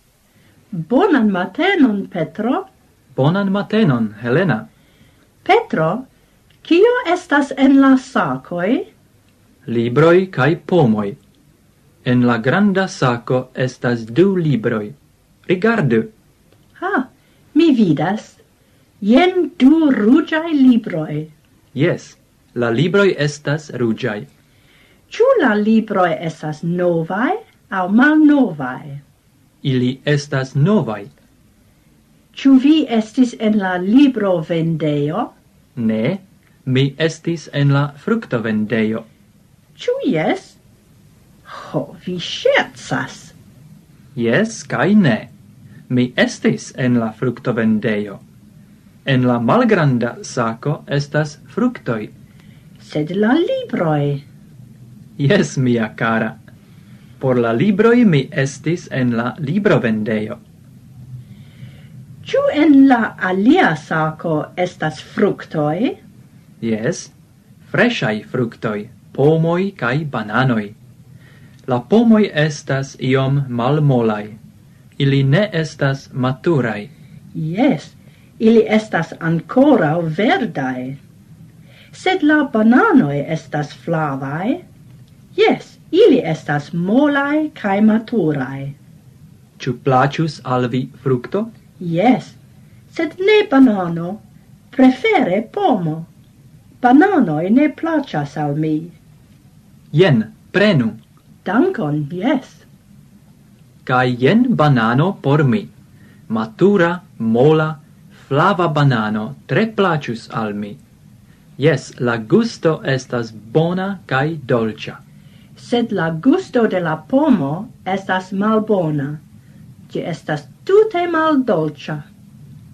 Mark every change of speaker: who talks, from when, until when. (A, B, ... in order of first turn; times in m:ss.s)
0:00.7-0:02.7 A
0:03.2-0:04.7 B
0:05.4-0:06.1 A
0:06.6-0:08.9 A
0:09.7-0:11.2 B
0:12.0-0:15.0 B
0:15.5-0:16.1 B
0:16.8-0:18.4 A
0:19.0-0:21.3 A
0:21.8-0:24.3 B
0:25.1-0:29.0 A
0:29.6-0:31.1 B
0:32.3-0:35.3 A
0:35.8-0:39.1 B
0:39.8-0:40.6 A
0:41.5-0:43.4 A
0:44.2-0:45.3 B
0:45.9-0:48.2 B
0:49.1-0:52.1 B
0:52.8-0:54.2 A
0:55.2-0:56.4 B
0:57.2-1:00.4 B
1:02.2-1:06.0 A
1:06.6-1:07.1 B
1:07.6-1:10.8 B
1:11.7-1:14.4 B
1:15.0-1:16.9 B
1:17.3-1:21.0 A
1:21.9-1:24.6 A
1:25.4-1:28.8 A
1:29.6-1:31.5 B
1:31.8-1:32.4 A
1:32.9-1:36.1 A
1:36.8-1:39.0 A
1:39.9-1:41.0 B
1:41.4-1:42.6 A
1:43.8-1:45.7 B
1:46.3-1:50.8 B
1:51.6-1:55.0 B
1:55.6-1:59.2 A
1:59.9-2:02.1 A